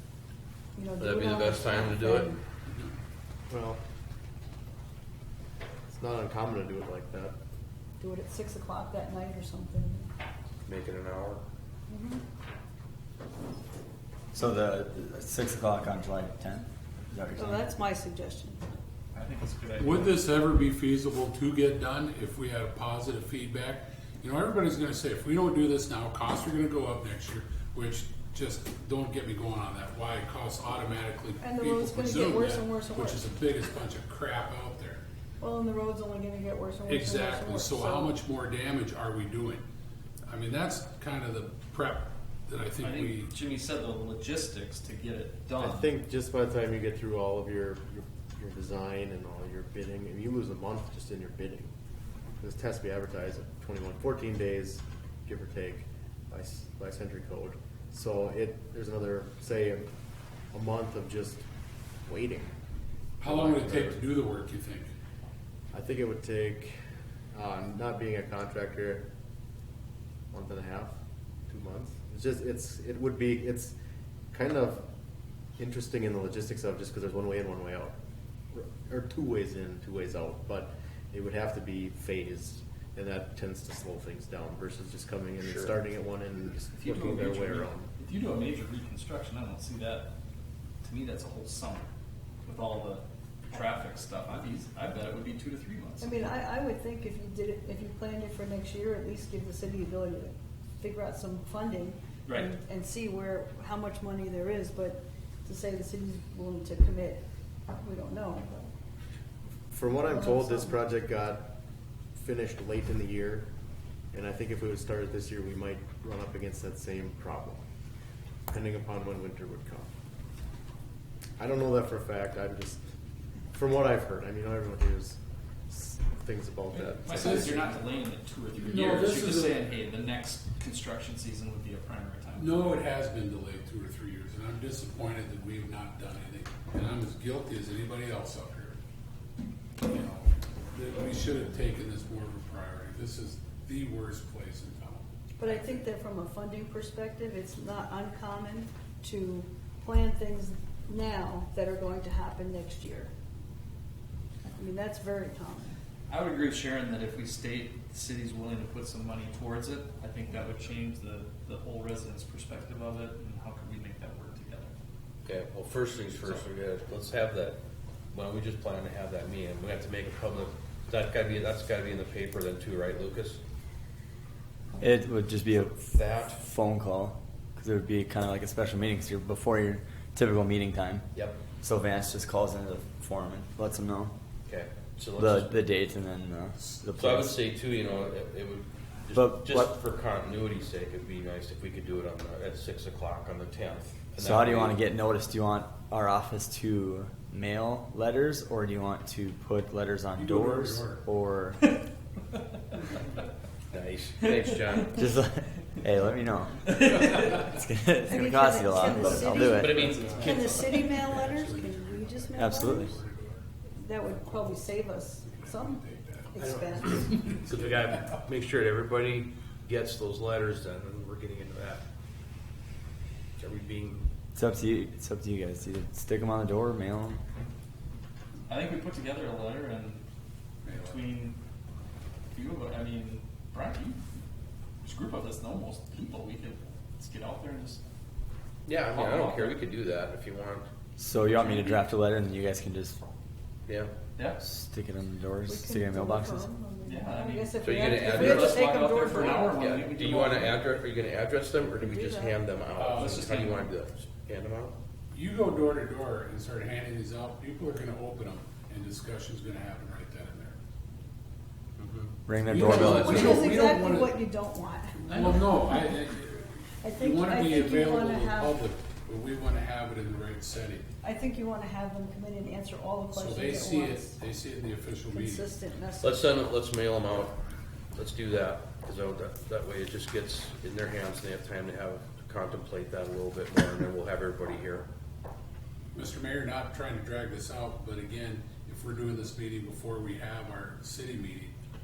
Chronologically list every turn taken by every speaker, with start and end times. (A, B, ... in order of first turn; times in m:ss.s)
0:00.8-0:02.4 A
0:01.0-0:02.4 B
0:03.5-0:03.8 C
0:05.9-0:07.4 C
0:08.0-0:10.1 A
0:10.6-0:11.4 B
0:11.9-0:12.2 A
0:14.3-0:17.7 D
0:17.4-0:18.6 A
0:19.1-0:20.3 E
0:19.8-0:35.0 F
0:31.4-0:33.2 A
0:35.4-0:38.2 A
0:36.9-0:39.6 F
0:40.3-0:43.3 F
0:42.8-0:45.9 E
0:45.6-0:51.7 C
0:52.4-0:59.8 C
1:00.5-1:01.4 C
1:02.0-1:02.5 C
1:03.2-1:04.9 F
1:03.2-1:04.0 C
1:05.7-1:06.8 C
1:07.3-1:09.0 C
1:10.3-1:10.9 C
1:11.5-1:13.8 C
1:14.3-1:14.8 C
1:15.6-1:17.9 C
1:18.5-1:27.9 C
1:25.4-1:25.8 B
1:26.8-1:30.1 E
1:26.8-1:27.4 B
1:30.8-1:31.9 E
1:32.4-1:36.1 E
1:36.0-1:48.7 A
1:42.3-1:42.5 E
1:49.7-1:51.5 C
1:50.0-1:50.8 A
1:52.2-1:53.5 C
1:54.1-1:57.6 C
1:58.5-1:59.9 C
2:01.4-2:02.8 C
2:03.5-2:05.2 C
2:05.7-2:07.8 C
2:06.7-2:12.7 E
2:07.1-2:07.5 F
2:08.6-2:09.7 F
2:12.4-2:18.8 F
2:19.8-2:25.8 F
2:25.4-2:33.1 A
2:34.4-2:35.7 A
2:36.1-2:44.7 E
2:45.2-2:47.6 B
2:48.1-2:53.4 B
2:54.8-3:04.1 D
2:55.5-2:56.4 B
3:01.1-3:01.4 B
3:04.5-3:05.6 B
3:05.2-3:07.4 D
3:07.0-3:14.8 B
3:09.1-3:09.7 D
3:14.2-3:21.6 D
3:20.1-3:21.0 F
3:23.7-3:25.0 B
3:24.6-3:25.0 E
3:24.9-3:26.8 D
3:26.7-3:27.3 E
3:27.3-3:29.9 D
3:28.1-3:32.9 A
3:28.9-3:33.4 F
3:29.3-3:30.9 B
3:32.4-3:33.0 D
3:33.7-3:35.8 A
3:35.3-3:38.3 F
3:36.3-3:37.2 A
3:36.4-3:41.8 B
3:43.4-3:44.1 B
3:44.4-3:47.2 D
3:48.5-3:50.0 E
3:50.6-3:51.0 F
3:50.7-3:51.4 E
3:52.3-3:54.0 E
3:54.8-3:57.8 E
3:58.7-4:00.7 B
3:58.9-3:59.6 E
4:01.0-4:03.0 D
4:01.2-4:01.9 E
4:03.7-4:04.0 B
4:04.2-4:04.4 E
4:04.4-4:06.5 D
4:05.5-4:09.6 A
4:06.9-4:10.7 E
4:07.6-4:14.7 B
4:11.7-4:12.4 A
4:12.8-4:13.5 F
4:12.9-4:13.7 E
4:15.1-4:20.6 F
4:21.8-4:22.1 B
4:22.3-4:23.5 D
4:22.5-4:24.2 F
4:22.7-4:25.0 A
4:22.8-4:23.5 B
4:25.0-4:30.8 F
4:25.1-4:25.6 E
4:26.8-4:28.6 A
4:31.0-4:34.2 A
4:33.1-4:35.4 F
4:35.1-4:36.2 A
4:36.0-4:37.4 B
4:38.0-4:44.9 B
4:45.9-4:51.6 F